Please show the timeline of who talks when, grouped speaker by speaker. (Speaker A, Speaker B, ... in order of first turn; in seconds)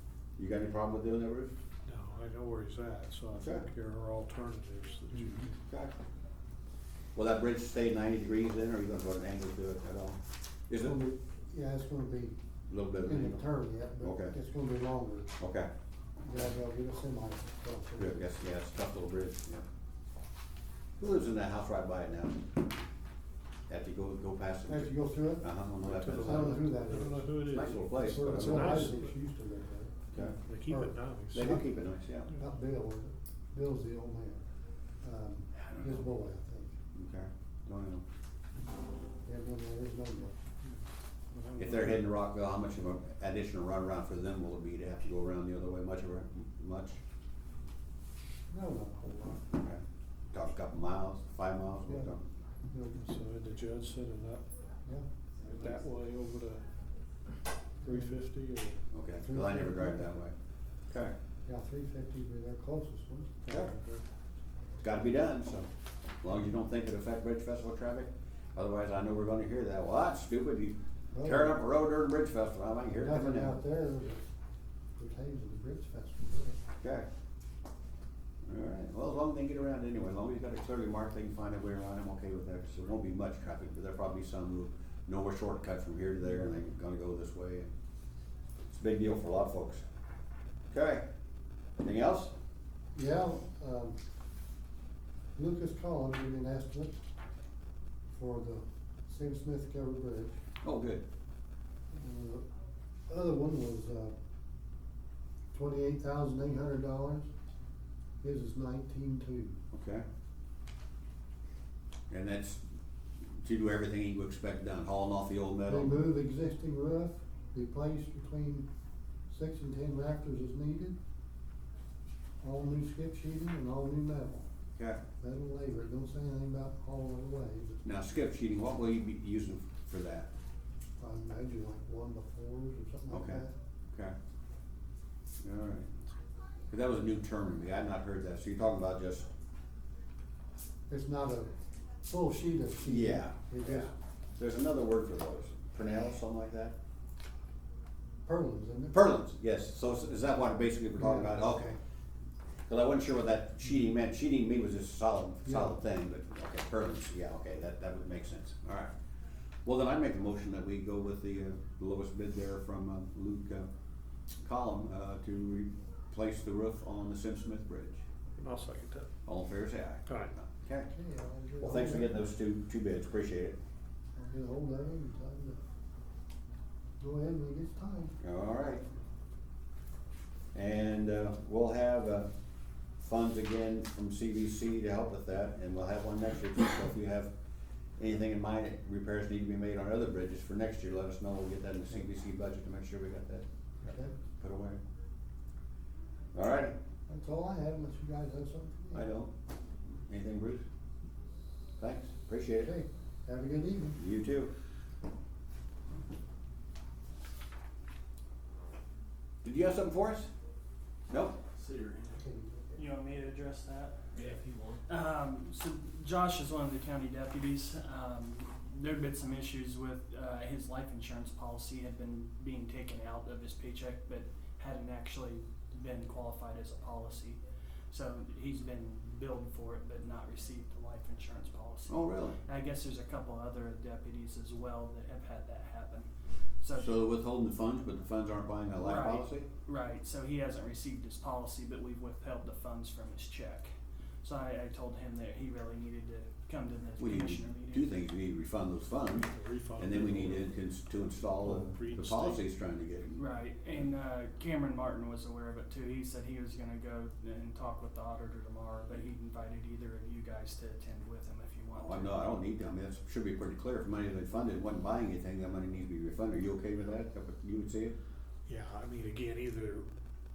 Speaker A: 0.4-1.6, 3.3-3.7, 5.1-5.9, 7.1-10.2, 10.7-10.9, 12.7-13.4, 14.0-14.3, 15.4-15.7, 18.0-19.6, 21.0-22.4, 23.7-26.6, 27.5-28.9, 31.3-32.3, 36.9-38.0, 41.5-47.0, 49.5-49.8, 50.3-52.2, 58.9-60.3, 60.9-61.1, 63.5-63.7, 64.8-65.7, 66.2-73.6, 76.8-77.1, 78.4-87.7, 88.7-89.8, 90.7-91.0, 91.8-92.3, 100.6-101.0, 109.7-110.0, 112.1-112.6, 113.4-116.0, 124.8-125.0, 127.8-130.3, 133.1-134.1, 135.4-135.9, 136.7-139.3, 142.8-146.7, 148.9-151.7, 152.7-158.9, 159.6-163.7, 164.4-168.0, 169.2-170.9, 171.6-173.6, 178.2-178.8, 180.5-182.3, 183.0-187.3, 188.0-193.4, 194.4-194.8, 196.3-196.7, 198.9-199.3, 200.1-200.6, 201.8-202.7, 204.0-204.5, 209.4-210.3, 211.1-211.4, 231.9-232.4, 236.7-239.5, 247.0-253.2, 261.8-267.9
Speaker B: 1.8-5.5, 25.8-29.1, 30.4-31.6, 41.3-42.0, 53.0-54.4, 55.5-56.6, 57.9-58.8, 63.4-64.0, 168.4-169.1, 170.1-170.3, 249.2-252.4, 268.4-269.9
Speaker C: 10.8-12.3, 13.0-15.3, 16.2-18.2, 24.7-25.4, 26.1-30.1, 30.6-31.6, 32.4-34.4, 35.0-36.7, 39.2-40.3, 48.5-49.4, 51.8-52.1, 52.7-53.1, 57.8-58.2, 59.2-60.1, 61.5-63.4, 71.1-71.6, 72.9-74.2, 75.0-76.6, 92.9-94.0, 95.3-96.9, 98.1-100.4, 101.9-102.4, 103.1-104.1, 105.5-107.3, 108.2-109.5, 115.7-118.7, 119.3-121.0, 122.4-124.5, 125.2-127.8, 131.0-133.5, 140.9-141.5, 142.0-143.9, 148.2-148.9, 151.0-151.8, 155.4-155.8, 170.9-172.2, 174.1-175.6, 177.0-178.1, 193.8-194.1, 197.1-199.1, 202.6-204.0, 212.1-212.8
Speaker D: 212.7-227.4, 227.9-236.1, 236.6-236.9, 238.8-243.7, 244.2-247.9, 253.2-262.2